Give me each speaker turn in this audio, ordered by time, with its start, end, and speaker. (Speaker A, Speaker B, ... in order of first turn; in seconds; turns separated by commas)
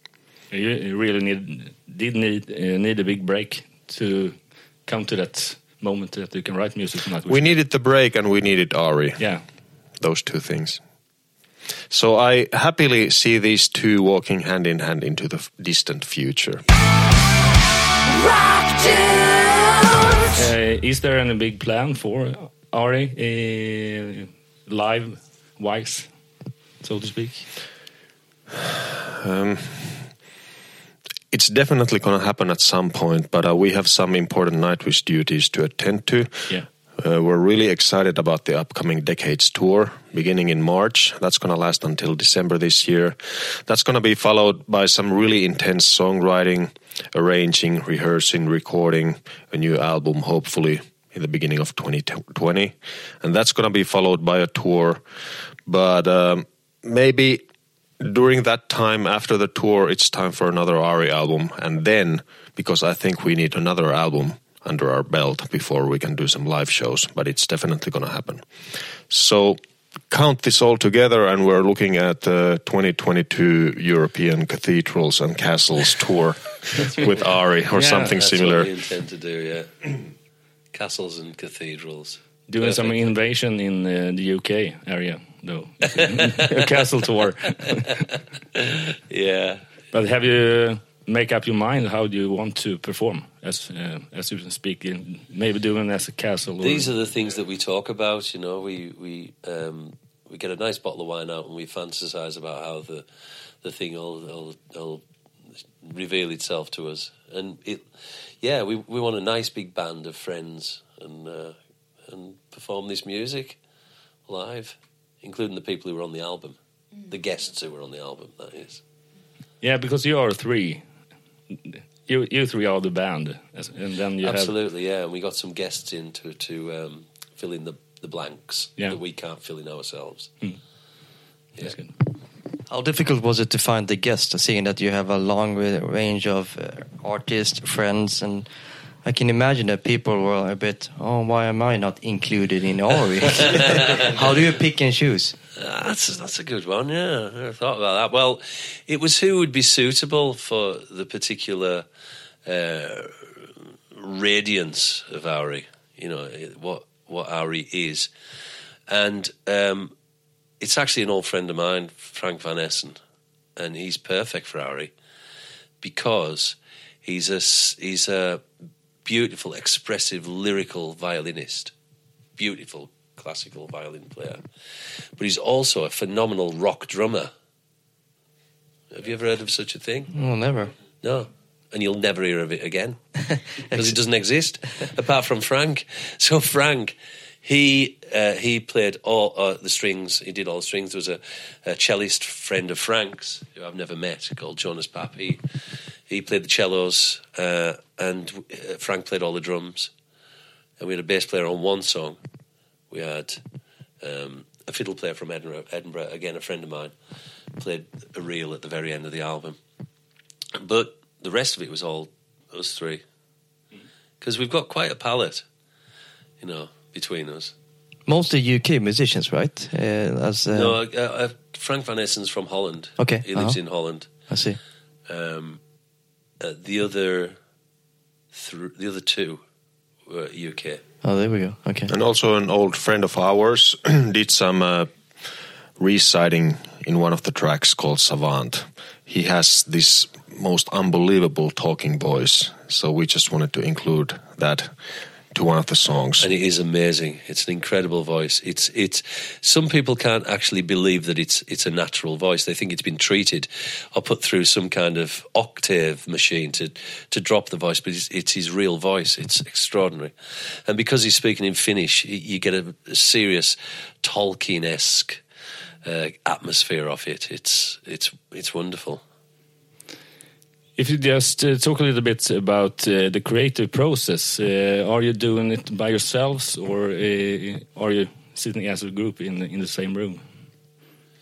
Speaker A: 0.5-7.5, Speaker B: 7.3-9.2, Speaker B: 10.0-10.8, Speaker B: 11.9-16.6, Speaker A: 20.3-26.1, Speaker A: 26.8-27.4, Speaker B: 28.7-30.1, Speaker B: 31.3-55.0, Speaker B: 55.6-57.4, Speaker B: 58.0-68.5, Speaker B: 69.1-78.7, Speaker A: 77.7-78.2, Speaker C: 78.1-80.0, Speaker C: 80.7-83.0, Speaker A: 82.5-87.8, Speaker C: 86.0-86.5, Speaker C: 88.5-89.6, Speaker A: 89.9-96.9, Speaker C: 96.6-103.0, Speaker C: 103.6-105.0, Speaker C: 105.8-107.9, Speaker C: 108.4-111.5, Speaker C: 112.0-113.6, Speaker C: 114.3-116.5, Speaker C: 117.1-118.8, Speaker A: 119.6-120.8, Speaker A: 121.7-124.5, Speaker C: 124.2-130.3, Speaker A: 131.6-131.9, Speaker D: 132.7-138.5, Speaker D: 139.0-145.3, Speaker C: 143.5-143.8, Speaker C: 145.6-151.8, Speaker C: 152.4-158.1, Speaker C: 158.9-159.9, Speaker C: 160.6-163.0, Speaker C: 163.6-164.9, Speaker C: 165.8-168.4, Speaker C: 169.0-171.7, Speaker C: 172.4-174.4, Speaker C: 175.2-177.3, Speaker C: 178.9-180.1, Speaker D: 180.1-180.7, Speaker C: 181.0-183.0, Speaker D: 183.3-183.9, Speaker C: 183.7-195.4, Speaker C: 196.1-199.9, Speaker C: 200.8-202.2, Speaker C: 202.9-203.4, Speaker C: 204.0-206.9, Speaker C: 207.6-209.6, Speaker C: 210.6-213.0, Speaker C: 214.2-215.4, Speaker C: 216.4-217.5, Speaker D: 218.1-220.8, Speaker C: 220.5-224.3, Speaker D: 223.0-223.6, Speaker D: 224.3-224.6, Speaker C: 225.1-225.6, Speaker C: 226.4-227.3, Speaker C: 228.3-229.4, Speaker C: 230.1-230.8, Speaker D: 231.0-231.9, Speaker B: 231.9-234.9, Speaker B: 235.8-244.7, Speaker B: 245.3-246.3, Speaker C: 246.2-260.1, Speaker C: 260.7-265.2, Speaker C: 265.8-269.0, Speaker A: 270.8-280.2